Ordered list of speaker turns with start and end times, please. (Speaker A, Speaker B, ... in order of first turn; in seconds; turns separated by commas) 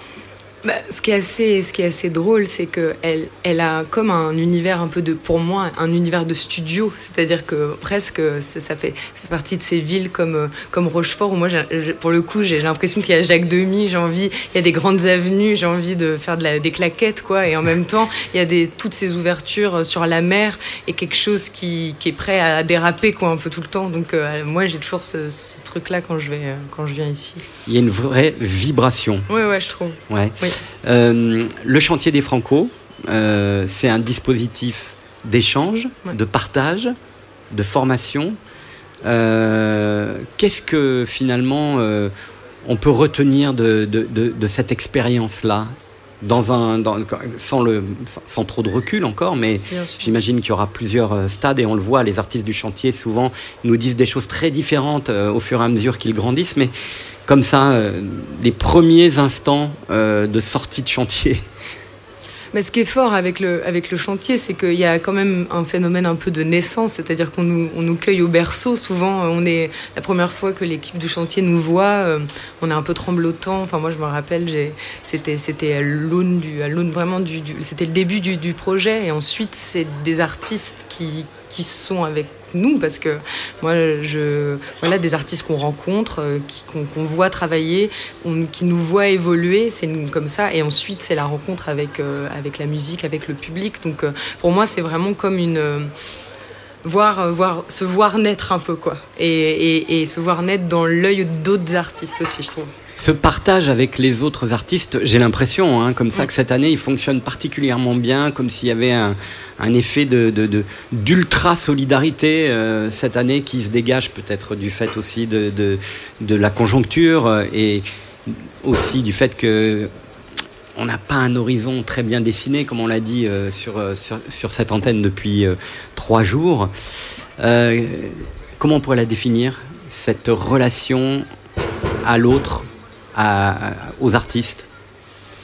Speaker A: 0.6-27.4, Speaker B: 27.6-29.3, Speaker A: 29.3-30.6, Speaker B: 30.1-37.0, Speaker B: 37.5-38.4, Speaker B: 39.0-42.1, Speaker B: 42.6-56.7, Speaker A: 49.7-50.1, Speaker B: 57.3-61.4, Speaker A: 62.5-95.9, Speaker A: 96.8-102.7, Speaker B: 103.0-119.9, Speaker B: 120.8-126.7, Speaker B: 127.4-131.3, Speaker B: 132.0-134.7